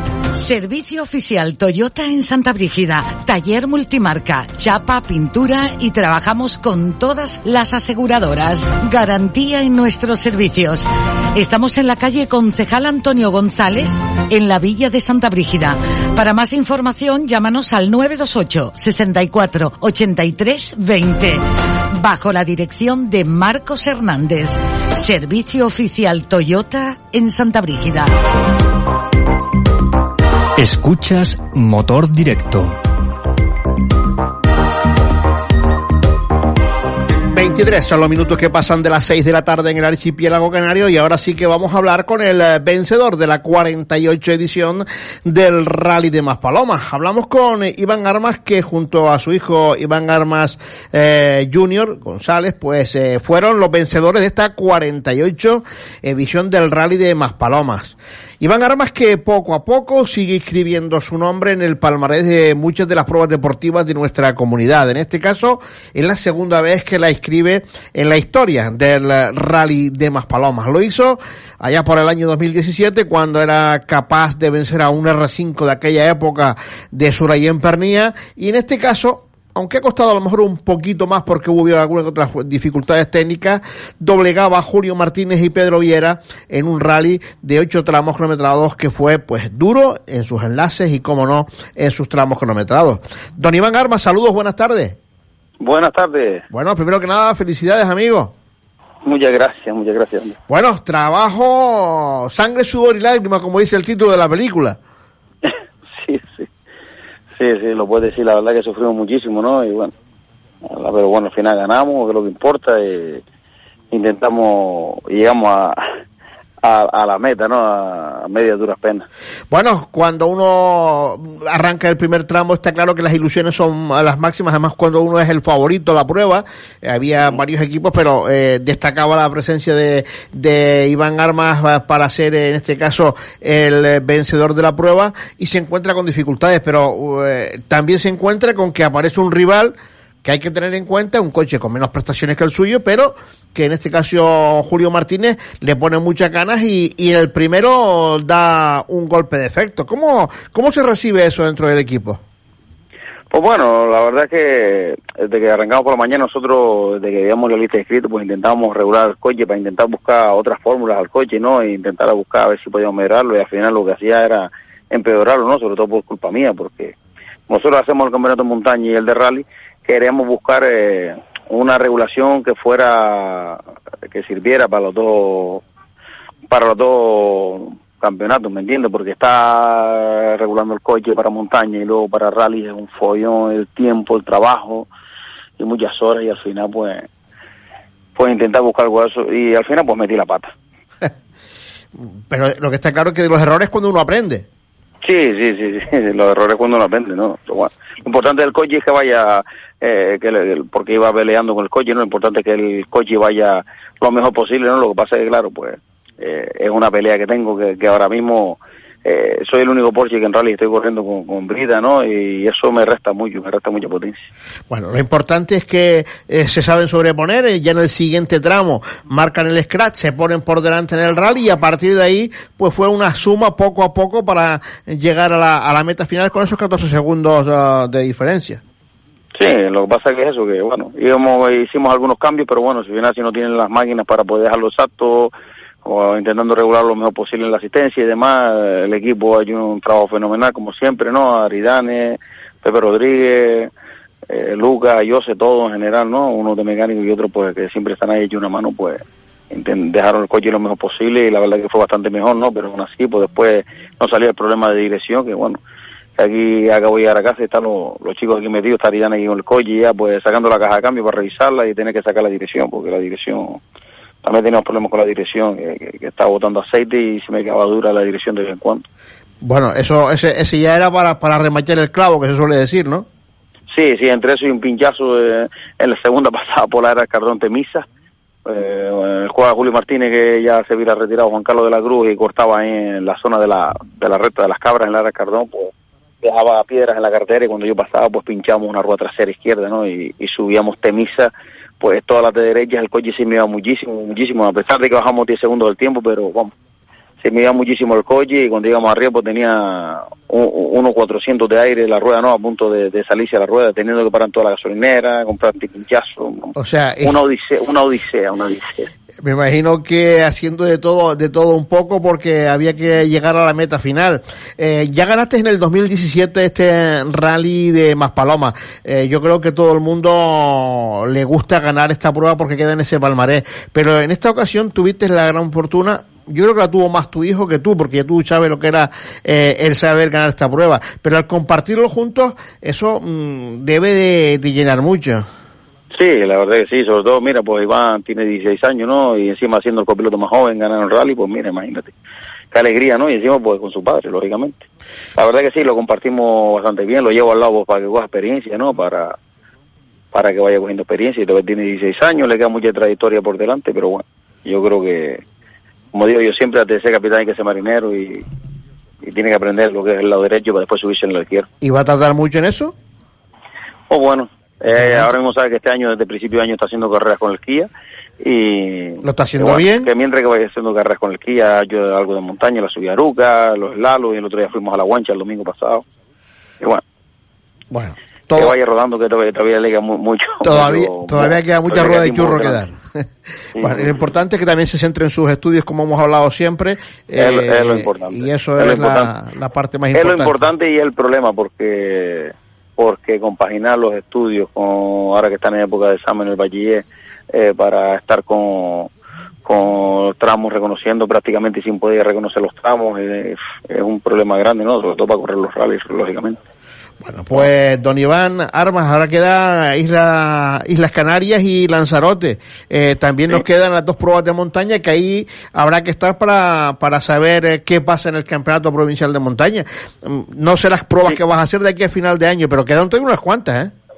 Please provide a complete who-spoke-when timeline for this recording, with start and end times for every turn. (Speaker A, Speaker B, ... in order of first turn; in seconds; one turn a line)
Speaker A: 0.3-28.1
Speaker B: 30.6-32.8
Speaker C: 37.3-95.0
Speaker D: 95.6-96.5
Speaker C: 96.5-98.3
Speaker D: 99.0-100.4
Speaker C: 100.5-104.8
Speaker D: 105.5-106.5
Speaker D: 107.4-109.9
Speaker D: 110.7-113.2
Speaker D: 113.9-115.8
Speaker D: 116.6-119.1
Speaker C: 119.5-152.2
Speaker D: 153.3-166.9
Speaker D: 167.5-175.6
Speaker D: 176.5-184.9
Speaker D: 185.6-187.1
Speaker D: 188.2-190.5
Speaker C: 192.0-194.5
Speaker D: 195.0-214.2
Speaker C: 214.7-228.6
Speaker D: 229.4-235.3
Speaker D: 235.8-243.7
Speaker D: 244.3-255.6
Speaker D: 256.2-263.6
Speaker D: 264.2-268.9
Speaker C: 269.4-273.1
Speaker D: 273.7-277.9
Speaker D: 278.5-296.5
Speaker D: 297.2-308.9
Speaker C: 306.6-307.2
Speaker C: 309.2-335.3
Speaker D: 335.9-341.9
Speaker D: 342.5-344.7
Speaker D: 345.2-349.2
Speaker D: 350.1-355.2
Speaker D: 355.9-358.3
Speaker D: 359.0-361.5
Speaker C: 361.6-362.7
Speaker D: 363.9-375.9
Speaker C: 364.7-365.1
Speaker C: 369.0-369.9
Speaker C: 377.7-378.6
Speaker D: 378.3-382.6
Speaker C: 380.4-383.0
Speaker C: 383.6-390.4
Speaker D: 383.6-384.0
Speaker D: 387.2-389.1
Speaker D: 389.9-398.9
Speaker D: 399.4-406.4
Speaker C: 407.0-423.7